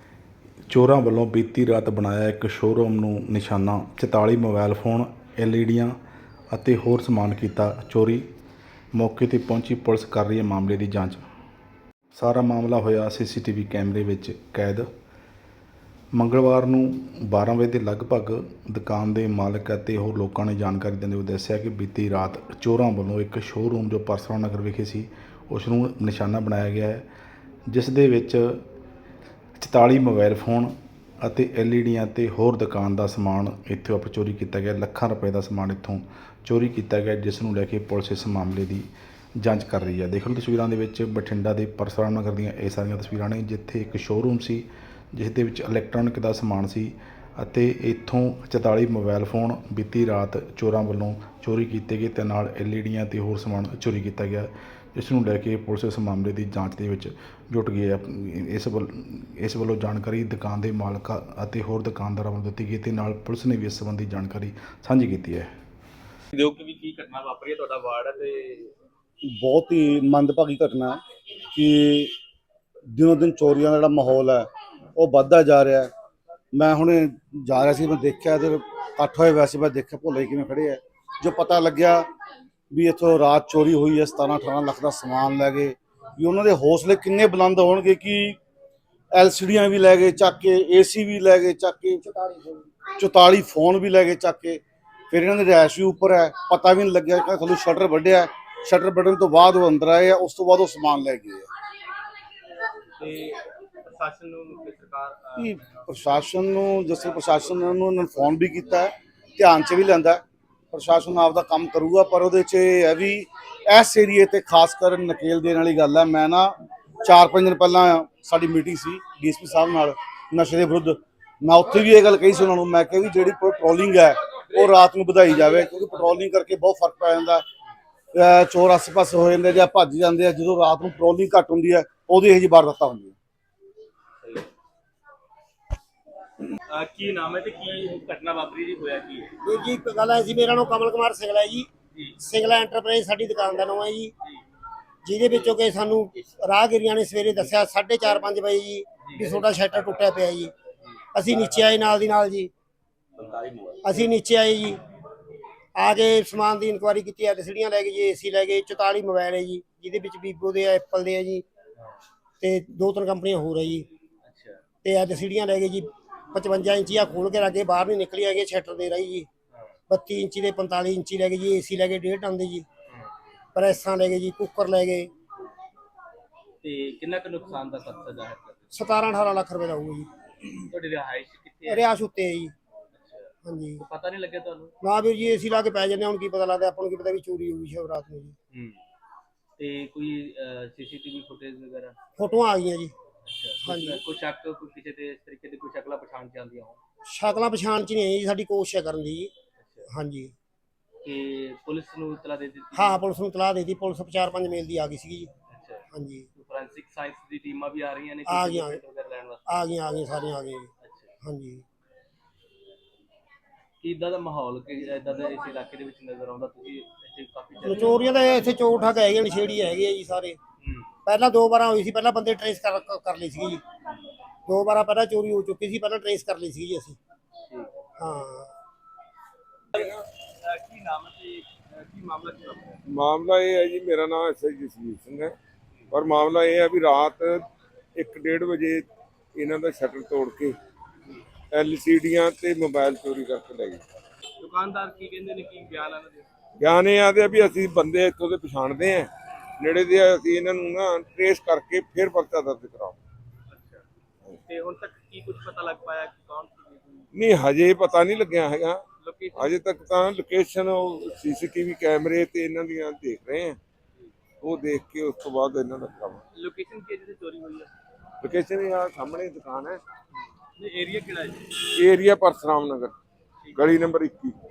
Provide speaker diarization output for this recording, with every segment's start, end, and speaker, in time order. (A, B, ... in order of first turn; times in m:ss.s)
0:00.7-0:05.9 A
0:06.5-0:08.2 A
0:08.9-0:11.2 A
0:12.1-0:14.9 A
0:16.1-0:27.0 A
0:27.7-0:28.6 A
0:29.6-0:38.8 A
0:39.4-1:05.5 A
1:06.3-1:08.7 B
1:09.2-1:11.0 C
1:11.5-1:12.1 C
1:12.9-1:15.9 C
1:16.5-1:22.1 C
1:22.7-1:28.4 C
1:29.1-1:32.0 C
1:32.0-1:32.7 D
1:33.0-1:41.5 C
1:43.0-1:45.8 B
1:45.4-2:07.4 C
2:08.1-2:13.1 C
2:14.2-2:14.5 B
2:16.7-2:19.3 B
2:19.4-2:21.7 D
2:22.2-2:24.1 D
2:25.0-2:30.5 D
2:29.0-2:29.5 B
2:31.1-2:32.5 D
2:33.2-2:33.6 B
2:33.8-2:34.8 D
2:35.8-2:41.4 D
2:42.4-2:43.8 D
2:44.2-2:44.6 B
2:44.8-2:49.3 D
2:49.9-2:52.6 D
2:53.5-2:55.1 D
2:56.6-2:58.6 B
2:58.7-3:00.1 D
3:00.6-3:01.9 B
3:01.7-3:02.5 D
3:02.9-3:04.7 B
3:03.4-3:03.8 D
3:04.8-3:08.3 D
3:08.5-3:08.8 B
3:09.6-3:11.9 B
3:12.2-3:12.9 D
3:13.2-3:16.8 B
3:13.6-3:14.0 D
3:17.1-3:19.3 D
3:19.6-3:19.9 B
3:19.9-3:20.3 D
3:21.0-3:23.0 B
3:22.7-3:25.3 D
3:25.5-3:29.4 B
3:25.9-3:26.3 D
3:28.3-3:28.8 D
3:29.5-3:30.7 D
3:30.8-3:31.1 B
3:31.2-3:31.6 D
3:33.8-3:37.9 B
3:37.6-3:40.4 D
3:40.6-3:40.9 B
3:41.0-3:43.6 D
3:44.5-3:47.0 D
3:48.0-3:48.5 D
3:49.7-3:50.0 E
3:49.7-3:52.8 B
3:52.9-3:55.3 E
3:55.9-4:00.6 E
4:01.5-4:03.8 E
4:04.4-4:06.2 B
4:06.6-4:13.0 E
4:13.5-4:13.8 B
4:14.4-4:17.1 B
4:17.1-4:18.8 E
4:19.0-4:19.6 B
4:19.3-4:23.6 E
4:24.4-4:26.2 E
4:26.3-4:27.7 B
4:28.2-4:29.8 E
4:30.6-4:31.4 B
4:31.8-4:32.9 E
4:33.4-4:33.8 B
4:33.6-4:34.3 E